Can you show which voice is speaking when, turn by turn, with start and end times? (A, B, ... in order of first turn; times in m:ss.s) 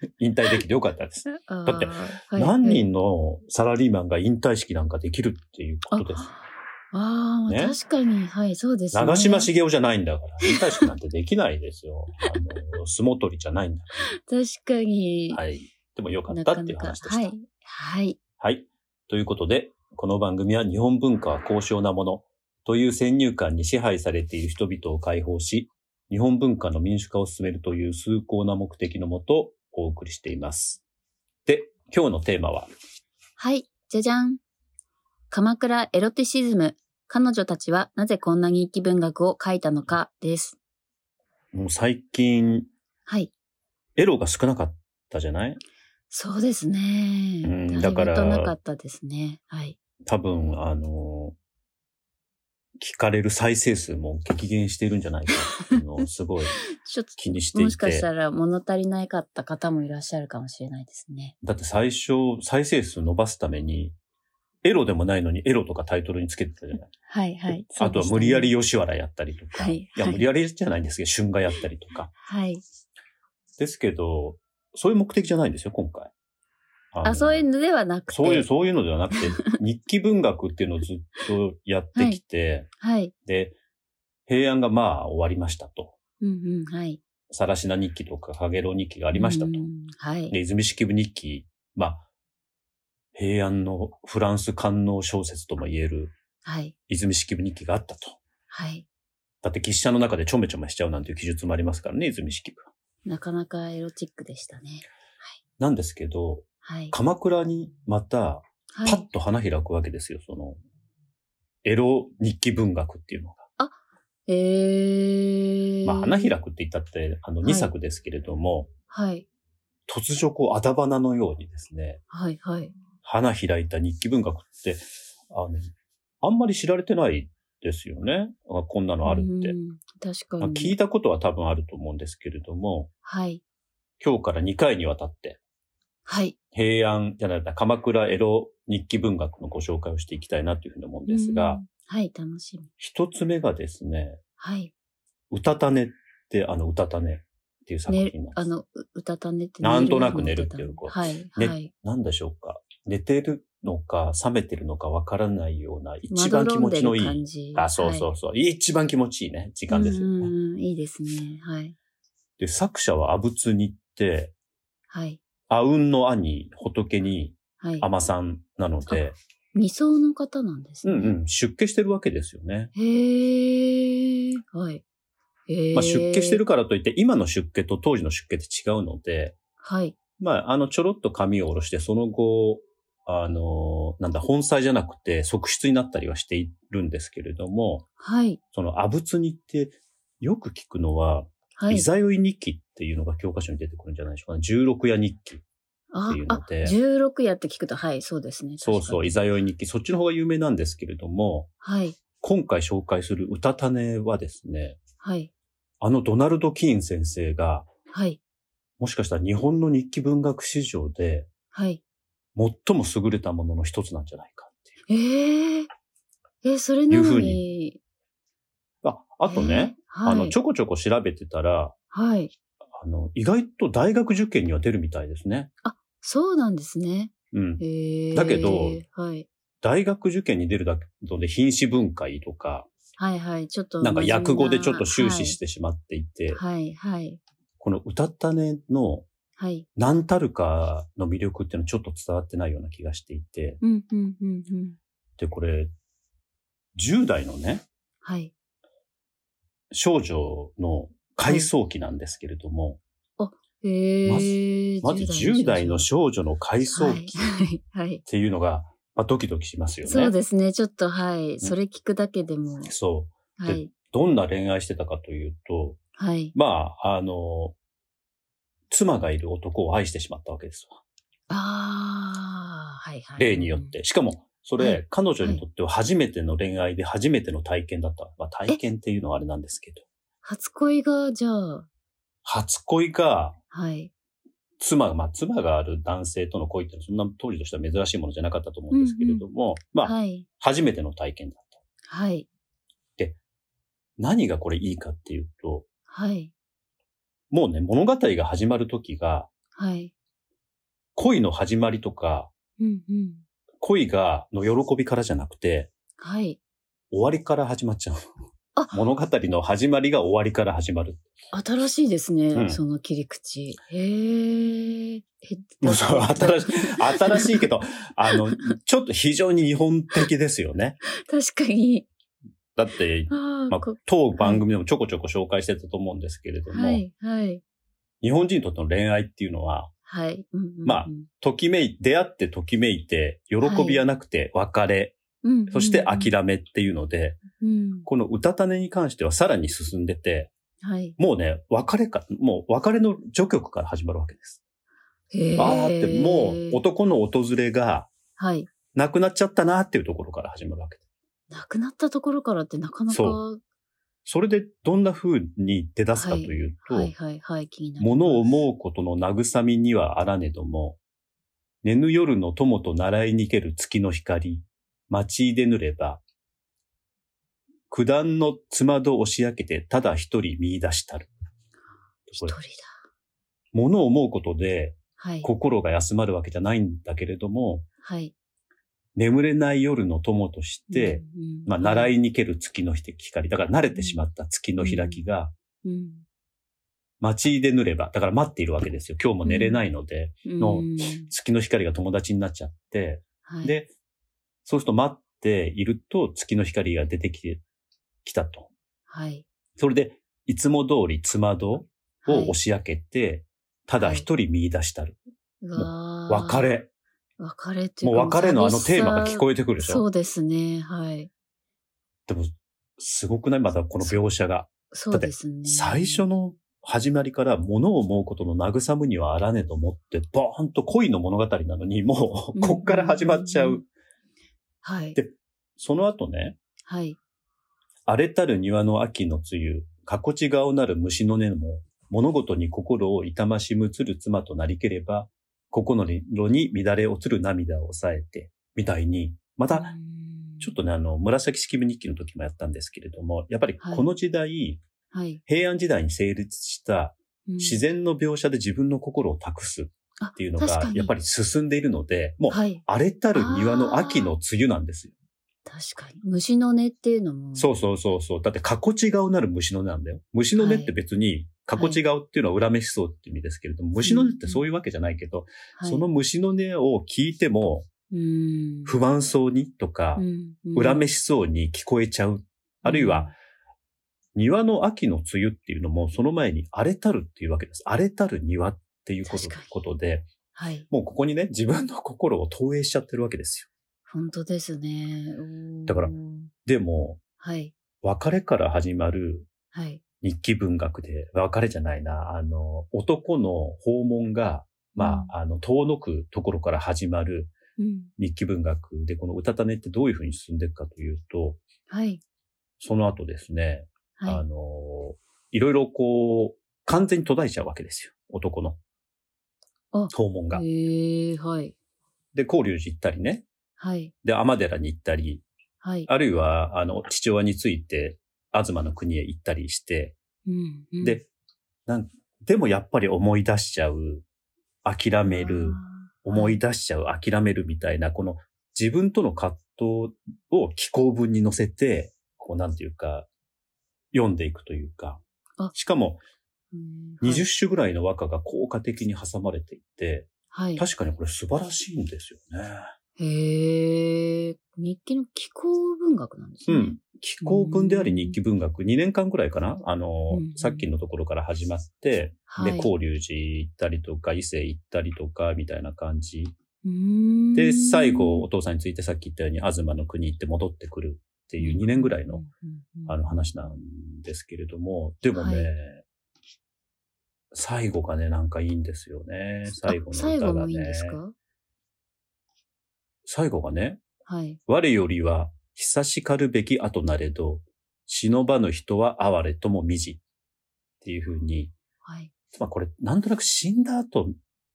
0:00.2-0:06.3 A
0:01.3-0:02.8 B
0:05.9-0:09.5 B
0:07.5-0:07.8 A
0:08.9-0:14.1 A
0:10.4-0:10.9 B
0:14.1-0:15.4 B
0:15.3-0:17.3 A
0:16.3-0:18.2 B
0:18.4-0:30.8 A
0:31.4-0:32.7 A
0:33.4-0:34.4 B
0:35.3-0:40.6 B
0:41.5-0:42.7 A
0:43.0-0:43.3 B
0:44.0-0:45.6 A
0:46.1-0:49.8 B
0:47.4-0:48.5 A
0:50.1-0:51.4 A
0:52.8-0:56.6 A
0:56.5-1:01.3 B
0:57.2-0:58.1 A
1:01.4-1:03.9 A
1:04.6-1:06.9 A
1:07.1-1:08.5 B
1:07.7-1:12.1 A
1:09.5-1:10.2 B
1:12.2-1:12.6 B
1:13.6-1:16.1 A
1:16.9-1:17.4 A
1:17.0-1:18.5 B
1:18.1-1:22.7 A
1:19.1-1:19.5 B
1:21.9-1:22.2 B
1:22.8-1:23.1 B
1:23.2-1:23.5 A
1:24.3-1:26.0 A
1:26.2-1:27.0 B
1:27.3-1:29.6 A
1:29.1-1:30.4 B
1:30.3-1:32.0 A
1:33.1-1:36.1 A
1:36.4-1:36.7 B
1:36.9-1:38.2 A
1:38.5-1:38.8 B
1:39.4-1:42.7 A
1:43.0-1:45.4 B
1:45.6-1:50.6 A
1:46.6-1:46.9 B
1:48.7-1:49.0 B
1:51.6-1:53.5 A
1:53.6-1:56.3 B
1:55.8-1:58.7 A
1:57.4-1:57.7 B
1:58.9-1:59.2 B
1:59.9-2:02.0 A
2:02.1-2:02.8 B
2:03.0-2:05.6 A
2:06.2-2:09.6 A
2:09.0-2:10.8 B
2:10.4-2:12.9 A
2:13.0-2:13.4 B
2:14.0-2:15.4 A
2:16.0-2:16.4 B
2:16.5-2:21.6 A
2:21.1-2:22.7 B
2:22.8-2:24.2 A
2:24.4-2:24.7 B
2:25.3-2:28.5 A
2:27.9-2:31.7 B
2:29.6-2:40.3 A
2:36.1-2:38.1 B
2:39.7-2:41.7 B
2:42.4-2:44.3 A
2:44.9-2:45.2 B
2:45.5-2:49.2 A
2:47.6-2:47.9 B
2:48.9-2:51.1 B
2:50.8-2:52.7 A
2:52.7-2:54.8 B
2:55.5-2:56.4 B
2:55.7-2:59.4 A
2:59.6-3:00.0 B
3:00.2-3:07.9 A
3:08.0-3:08.4 B
3:08.5-3:15.4 A
3:11.6-3:11.9 B
3:15.9-3:19.2 B
3:16.1-3:16.8 A
3:18.6-3:21.5 A
3:21.6-3:22.0 B
3:22.2-3:24.8 A
3:25.0-3:25.3 B
3:25.8-3:27.7 A
3:27.9-3:28.2 B
3:28.8-3:31.3 A
3:31.5-3:31.8 B
3:32.4-3:34.7 A
3:34.9-3:35.7 B
3:36.4-3:37.8 B
3:36.9-3:37.4 A
3:38.8-3:41.7 A
3:39.2-3:40.4 B
3:41.9-3:42.3 B
3:42.7-3:45.5 A
3:45.6-3:49.3 B
3:47.3-3:48.8 A
3:49.6-3:52.7 A
3:53.0-3:55.4 B
3:53.8-3:56.4 A
3:56.3-3:57.2 B
3:57.6-3:59.1 A
3:59.4-3:59.7 B
3:59.8-4:03.6 A
4:03.6-4:04.8 B
4:05.2-4:05.7 A
4:06.8-4:07.6 A
4:08.0-4:08.3 B
4:09.7-4:12.8 A
4:11.2-4:11.5 B
4:13.2-4:15.9 B
4:14.0-4:17.2 A
4:16.7-4:18.0 B
4:18.1-4:20.1 A
4:19.8-4:22.7 B
4:22.6-4:25.8 A
4:23.4-4:23.7 B
4:26.0-4:26.3 B
4:26.3-4:27.5 A
4:28.7-4:30.8 A
4:31.3-4:33.7 B
4:33.2-4:39.8 A
4:34.6-4:35.4 B
4:40.2-4:41.7 B
4:42.2-4:43.4 A
4:43.5-4:43.9 B
4:44.6-4:51.6 A
4:48.7-4:49.2 B
4:49.8-4:50.3 B
4:51.9-4:52.3 B
4:54.0-4:55.6 A
4:55.9-4:56.3 B
4:57.3-4:59.3 A
4:59.5-4:59.9 B
5:01.0-5:02.3 A
5:02.6-5:03.2 B
5:03.6-5:05.7 A
5:06.0-5:06.4 B
5:06.9-5:08.1 A
5:08.7-5:11.0 A
5:11.3-5:17.4 B
5:12.3-5:12.6 A
5:15.6-5:20.8 A
5:21.0-5:21.9 B
5:22.6-5:26.8 A
5:23.1-5:24.4 B
5:26.5-5:27.4 B
5:28.0-5:29.7 A
5:29.8-5:31.1 B
5:30.6-5:37.2 A
5:33.4-5:33.8 B
5:35.2-5:36.1 B
5:37.4-5:37.9 B
5:37.8-5:40.3 A
5:40.6-5:40.9 B
5:41.0-5:44.4 A
5:45.1-5:46.6 B
5:45.4-5:47.9 A
5:48.2-5:48.5 B
5:48.7-5:50.8 A
5:51.3-5:53.4 B
5:52.9-5:53.2 A
5:54.0-5:56.9 A
5:55.9-5:58.4 B
5:57.8-6:00.8 A
6:01.6-6:06.0 A
6:07.7-6:11.1 A
6:12.1-6:12.4 A
6:12.2-6:12.7 B
6:13.5-6:17.7 A
6:15.0-6:15.3 B
6:17.8-6:18.1 B
6:19.0-6:25.3 A
6:20.7-6:21.9 B
6:23.7-6:24.0 B
6:24.6-6:25.0 B
6:25.6-6:26.0 B
6:27.0-6:33.7 A
6:29.2-6:29.6 B
6:30.2-6:31.1 B
6:33.2-6:33.5 B
6:34.4-6:37.4 A
6:38.0-6:38.5 A
6:38.9-6:39.2 B
6:39.6-6:45.0 A
6:42.0-6:42.4 B
6:43.8-6:44.1 B
6:45.4-6:46.5 B
6:45.6-6:46.7 A
6:47.2-6:51.1 B
6:47.8-6:49.8 A
6:52.1-7:03.7 A
6:54.7-6:56.0 B
7:02.3-7:03.6 B
7:04.6-7:05.0 B
7:05.0-7:06.4 A
7:06.6-7:07.0 B
7:07.9-7:19.7 A
7:19.5-7:20.6 B
7:20.4-7:24.6 A
7:23.6-7:23.9 B
7:24.9-7:25.2 B
7:25.3-7:34.9 A
7:27.2-7:27.6 B
7:30.0-7:30.9 B
7:32.3-7:32.6 B
7:33.1-7:34.1 B
7:35.4-7:37.5 B
7:37.4-7:47.7 A
7:40.3-7:40.7 B
7:41.5-7:41.8 B
7:43.8-7:44.4 B
7:45.5-7:45.8 B
7:47.9-7:48.8 B
7:48.6-7:53.1 A
7:50.0-7:50.8 B
7:52.6-7:53.1 B
7:54.1-8:00.1 A
7:59.0-7:59.5 B
8:00.3-8:00.7 B
8:00.7-8:03.5 A
8:03.9-8:06.3 B
8:05.7-8:05.9 A
8:06.4-8:07.0 A
8:07.2-8:07.5 B
8:07.8-8:09.3 A
8:09.5-8:09.8 B
8:10.0-8:17.3 A
8:14.8-8:15.1 B
8:17.6-8:17.9 B
8:18.0-8:21.4 A
8:21.7-8:22.0 B
8:22.6-8:28.6 A
8:24.0-8:24.2 B
8:29.7-8:31.5 B
8:29.9-8:30.4 A
8:32.1-8:33.2 A
8:33.6-8:33.9 B
8:34.0-8:35.2 A
8:35.6-8:35.9 B
8:35.9-8:40.0 A
8:40.2-8:41.0 B
8:41.7-8:44.0 A
8:44.6-8:53.1 A
8:45.0-8:46.4 B
8:53.9-8:55.0 A
8:55.5-8:56.0 A
8:56.5-8:57.2 B
8:57.0-9:02.7 A
9:00.3-9:00.6 B
9:03.0-9:08.2 B
9:06.5-9:16.3 A
9:10.1-9:10.7 B
9:12.3-9:12.7 B
9:16.6-9:18.3 B
9:17.3-9:22.2 A
9:21.4-9:23.4 B
9:22.9-9:25.8 A
9:25.1-9:25.5 B
9:27.3-9:31.0 A
9:29.4-9:31.1 B
9:33.0-9:33.8 A
9:34.0-9:34.4 B
9:34.5-9:40.0 A
9:40.8-9:41.5 A
9:41.8-9:42.1 B
9:42.3-9:44.1 A